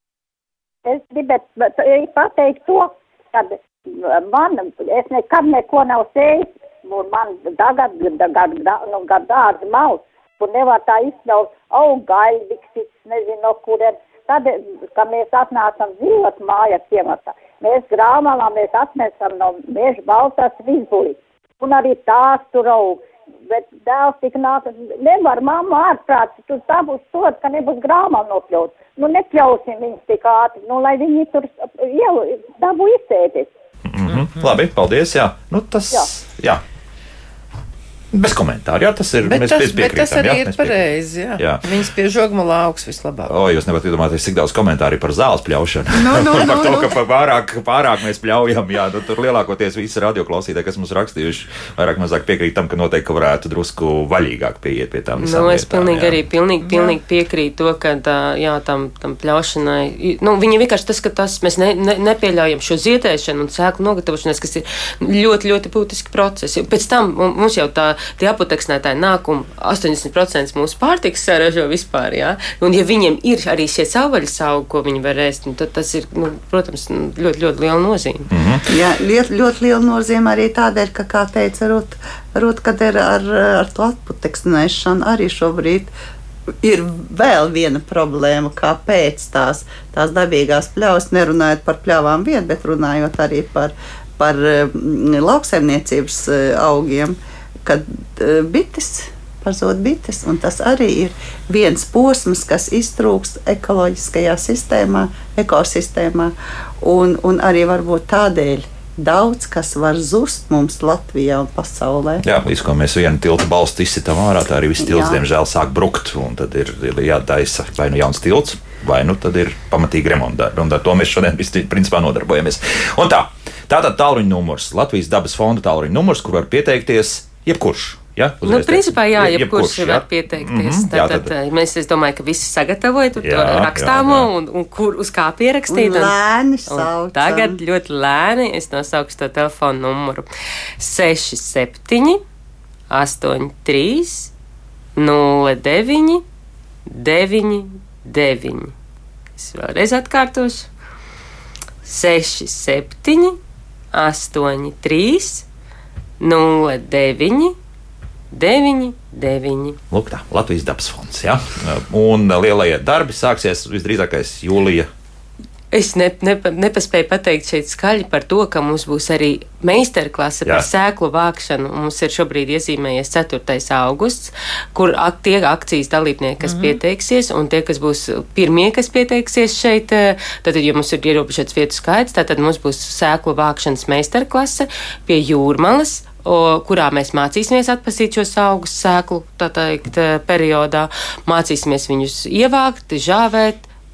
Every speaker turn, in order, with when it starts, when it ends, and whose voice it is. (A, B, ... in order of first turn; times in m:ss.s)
0:00.8-0:33.5 A
0:33.9-0:36.6 B
0:34.1-0:34.5 C
0:38.1-0:41.6 B
0:39.2-0:43.4 C
0:43.3-0:56.2 B
0:46.1-0:46.9 C
0:55.2-1:18.3 D
1:18.3-1:18.7 B
1:18.7-1:25.9 E
1:26.6-1:52.2 E
1:52.2-2:11.3 B
1:54.8-1:55.2 E
2:08.4-2:16.1 D
2:13.2-2:14.3 B
2:15.7-2:17.6 E
2:16.6-2:20.3 D
2:20.8-2:22.2 D
2:22.9-2:24.3 D
2:25.0-2:26.2 D
2:26.9-2:28.7 D
2:29.4-2:30.7 D
2:31.8-2:33.4 D
2:33.9-2:35.4 D
2:36.2-2:37.5 D
2:38.3-2:39.8 D
2:39.9-2:44.9 B
2:45.7-3:13.7 D
2:56.4-2:56.8 C